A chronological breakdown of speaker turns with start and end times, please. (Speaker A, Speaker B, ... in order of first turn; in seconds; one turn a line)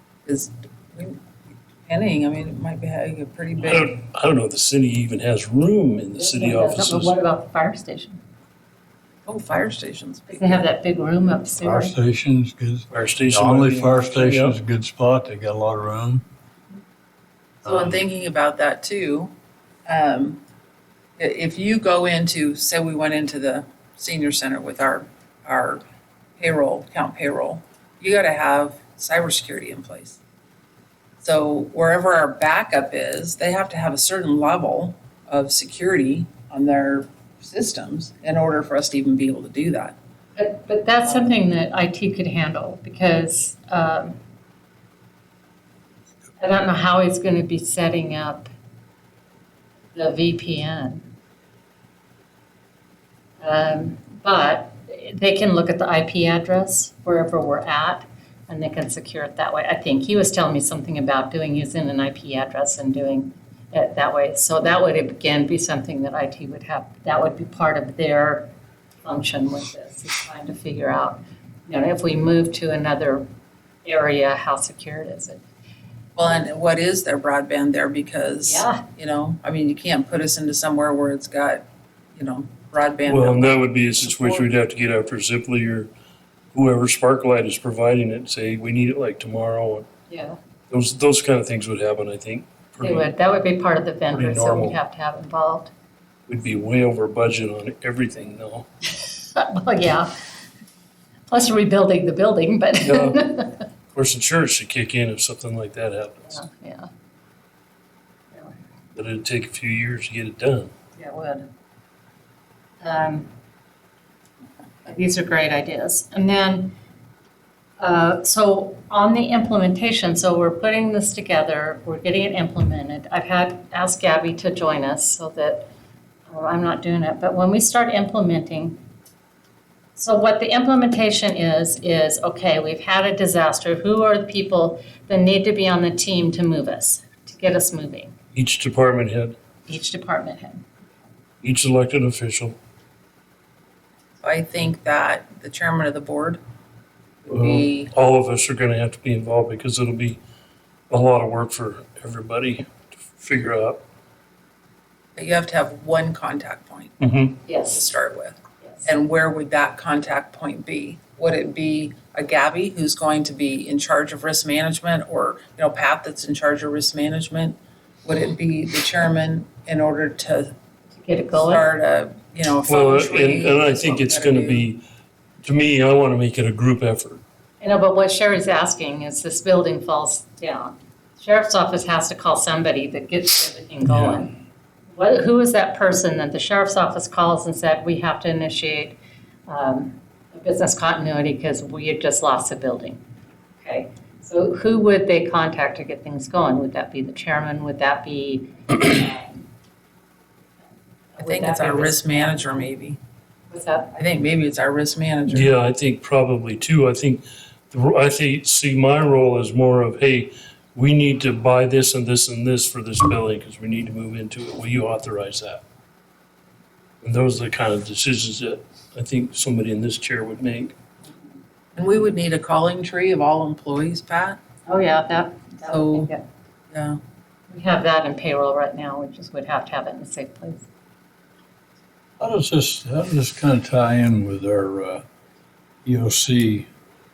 Speaker A: 0.2-1.2
Speaker A: 1.9-3.9
Speaker B: 3.6-7.1
Speaker C: 6.2-8.2
Speaker A: 9.2-10.7
Speaker C: 10.3-11.9
Speaker D: 11.6-16.2
Speaker B: 12.9-14.6
Speaker D: 17.6-18.0
Speaker A: 17.6-19.3
Speaker A: 19.9-20.4
Speaker A: 21.2-25.8
Speaker A: 26.4-30.2
Speaker A: 31.2-40.0
Speaker C: 40.4-44.2
Speaker C: 46.4-48.5
Speaker C: 49.9-51.0
Speaker C: 53.4-68.5
Speaker C: 69.0-73.2
Speaker C: 73.8-75.4
Speaker A: 76.2-84.5
Speaker C: 78.4-78.8
Speaker B: 83.1-85.9
Speaker B: 86.5-89.9
Speaker C: 90.1-90.3
Speaker B: 90.7-93.1
Speaker C: 92.8-95.7
Speaker B: 94.1-94.8
Speaker B: 96.3-98.7
Speaker C: 98.9-100.1
Speaker C: 101.3-103.6
Speaker B: 102.8-103.2
Speaker B: 103.9-106.4
Speaker C: 106.3-106.9
Speaker B: 108.9-110.7
Speaker C: 111.0-111.5
Speaker C: 112.8-113.3
Speaker C: 114.8-116.7
Speaker C: 117.8-125.7
Speaker C: 126.3-128.8
Speaker C: 129.9-138.1
Speaker B: 138.3-139.3
Speaker C: 139.7-140.7
Speaker B: 141.4-142.6
Speaker A: 144.2-146.4
Speaker A: 147.2-147.9
Speaker B: 147.3-150.2
Speaker B: 150.9-153.8
Speaker A: 155.2-170.5
Speaker B: 157.0-157.4
Speaker C: 157.4-157.8
Speaker C: 170.9-171.7
Speaker A: 171.3-174.7
Speaker B: 172.7-174.8
Speaker B: 175.4-177.2
Speaker C: 177.6-184.4
Speaker D: 183.8-184.2
Speaker C: 184.9-193.0
Speaker C: 193.6-199.4
Speaker C: 201.1-202.4
Speaker A: 201.2-203.0
Speaker C: 203.5-203.9
Speaker A: 203.9-205.5
Speaker B: 205.3-215.6
Speaker B: 217.0-220.7
Speaker A: 221.8-224.4
Speaker C: 224.7-226.2
Speaker A: 225.6-226.1
Speaker A: 226.7-227.0
Speaker C: 227.5-230.7
Speaker D: 232.2-235.0
Speaker D: 235.8-236.7